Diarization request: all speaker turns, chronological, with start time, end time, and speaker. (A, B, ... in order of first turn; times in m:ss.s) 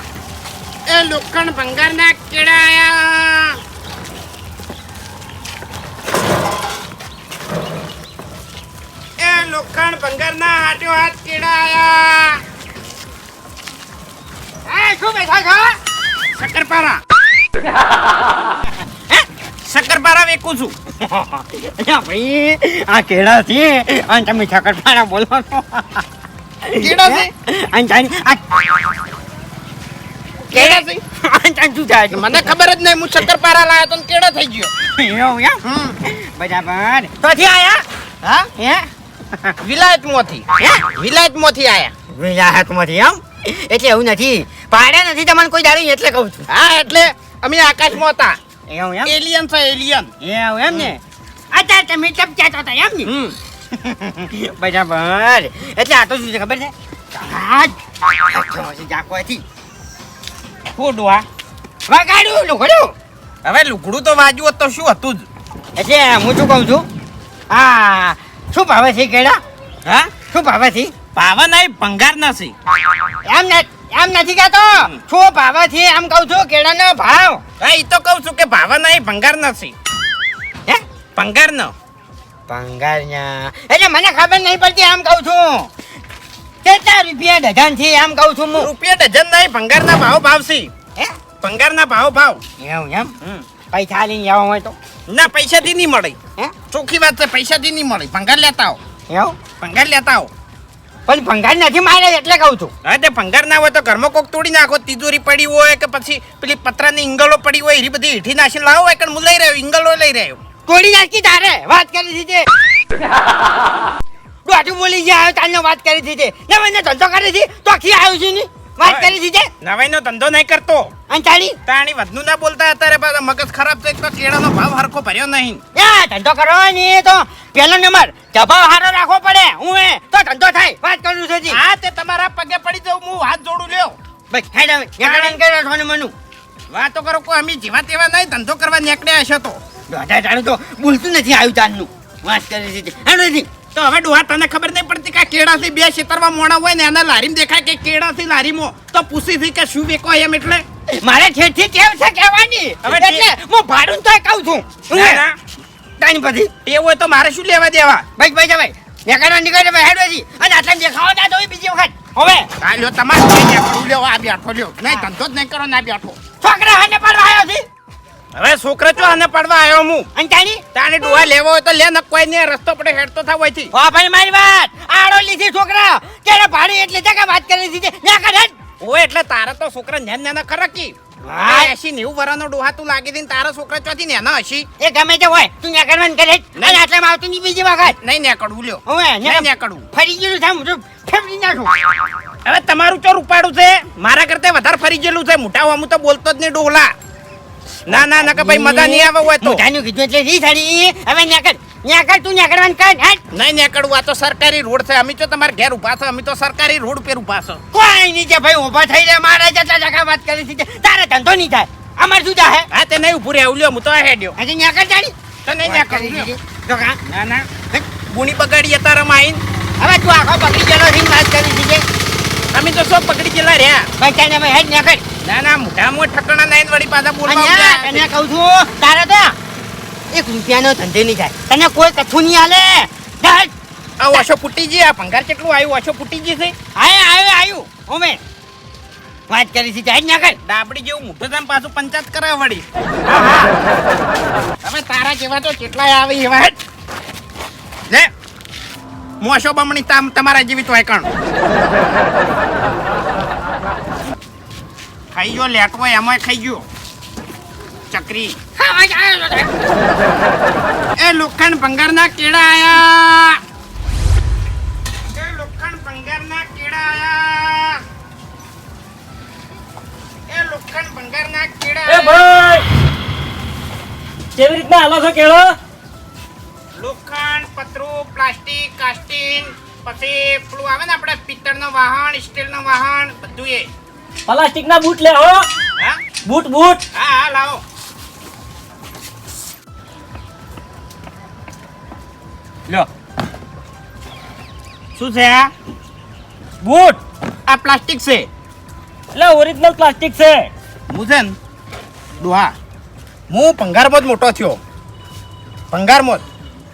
0:00.9-0:03.6 A
0:09.2-0:12.4 A
0:14.6-0:15.8 B
0:16.3-0:17.0 A
0:19.6-0:20.8 A
0:21.1-0:26.0 B
0:26.7-0:28.9 B
0:26.8-0:27.3 A
0:30.5-0:31.0 A
0:30.5-0:32.5 B
0:32.1-0:34.7 A
0:34.8-0:37.8 B
0:35.6-0:36.0 A
0:38.5-0:38.9 B
0:39.6-0:41.9 A
0:40.6-0:40.8 B
0:42.1-0:46.4 B
0:46.5-0:48.4 A
0:48.7-0:49.1 B
0:49.0-0:50.1 A
0:50.2-0:51.0 B
0:51.5-0:53.1 B
0:53.1-0:53.3 A
0:53.9-0:59.4 B
1:00.7-1:01.2 A
1:01.9-1:02.9 B
1:03.4-1:05.2 A
1:05.8-1:06.9 B
1:07.5-1:10.9 B
1:11.1-1:12.5 A
1:13.2-1:17.4 B
1:17.6-1:19.7 A
1:21.2-1:21.7 A
1:22.5-1:25.7 B
1:26.6-1:28.7 B
1:28.6-1:30.7 A
1:31.4-1:32.4 A
1:32.6-1:33.1 B
1:33.7-1:34.8 B
1:35.1-1:36.2 A
1:36.7-1:38.8 A
1:39.1-1:39.4 B
1:39.6-1:40.3 A
1:41.0-1:42.7 B
1:42.8-1:50.4 A
1:50.7-1:52.5 B
1:54.4-1:59.5 B
1:58.8-2:00.9 A
2:01.1-2:01.6 B
2:01.6-2:05.6 A
2:05.7-2:11.6 B
2:11.5-2:14.0 A
2:14.3-2:16.1 B
2:15.0-2:15.4 A
2:16.7-2:19.6 A
2:19.9-2:23.5 B
2:23.7-2:30.6 A
2:30.9-2:35.2 B
2:32.8-2:33.3 A
2:34.9-2:35.3 A
2:36.0-2:36.5 B
2:36.6-2:38.0 A
2:38.2-2:42.5 B
2:42.6-2:46.2 A
2:46.4-2:47.6 B
2:48.3-2:50.1 A
2:50.1-2:50.6 B
2:50.7-2:53.7 A
2:53.7-2:58.6 B
2:58.8-3:04.7 A
3:01.3-3:01.7 B
3:04.8-3:08.0 B
3:06.6-3:06.8 A
3:07.8-3:09.8 A
3:08.8-3:11.9 B
3:12.4-3:16.9 A
3:17.8-3:19.6 A
3:17.9-3:23.2 B
3:23.3-3:27.6 A
3:27.7-3:32.7 B
3:32.7-3:34.4 A
3:34.4-3:37.0 B
3:35.4-3:36.3 A
3:37.1-3:37.5 A
3:38.1-3:39.4 A
3:39.8-3:41.8 B
3:42.5-3:43.9 A
3:44.0-3:45.0 B
3:45.2-3:48.1 A
3:47.2-3:49.4 B
3:50.1-3:53.5 B
3:54.0-3:56.5 A
3:56.8-3:58.2 B
3:59.3-4:00.4 B
4:00.4-4:03.5 A
4:04.6-4:06.6 A
4:09.2-4:11.1 A
4:15.1-4:16.6 A
4:17.9-4:18.4 A
4:18.6-4:19.5 B
4:21.0-4:23.4 A
4:25.1-4:27.8 A
4:30.3-4:32.2 A
4:31.9-4:32.6 C
4:34.4-4:35.5 C
4:36.8-4:43.7 A
4:44.3-4:45.5 C
4:46.2-4:46.8 C
4:46.9-4:47.6 A
4:55.0-4:55.5 A
4:56.6-4:57.0 C
4:57.5-4:58.3 A
4:59.1-5:00.5 C
5:00.9-5:01.4 A
5:02.2-5:02.5 A
5:03.3-5:04.6 A
5:05.7-5:06.2 A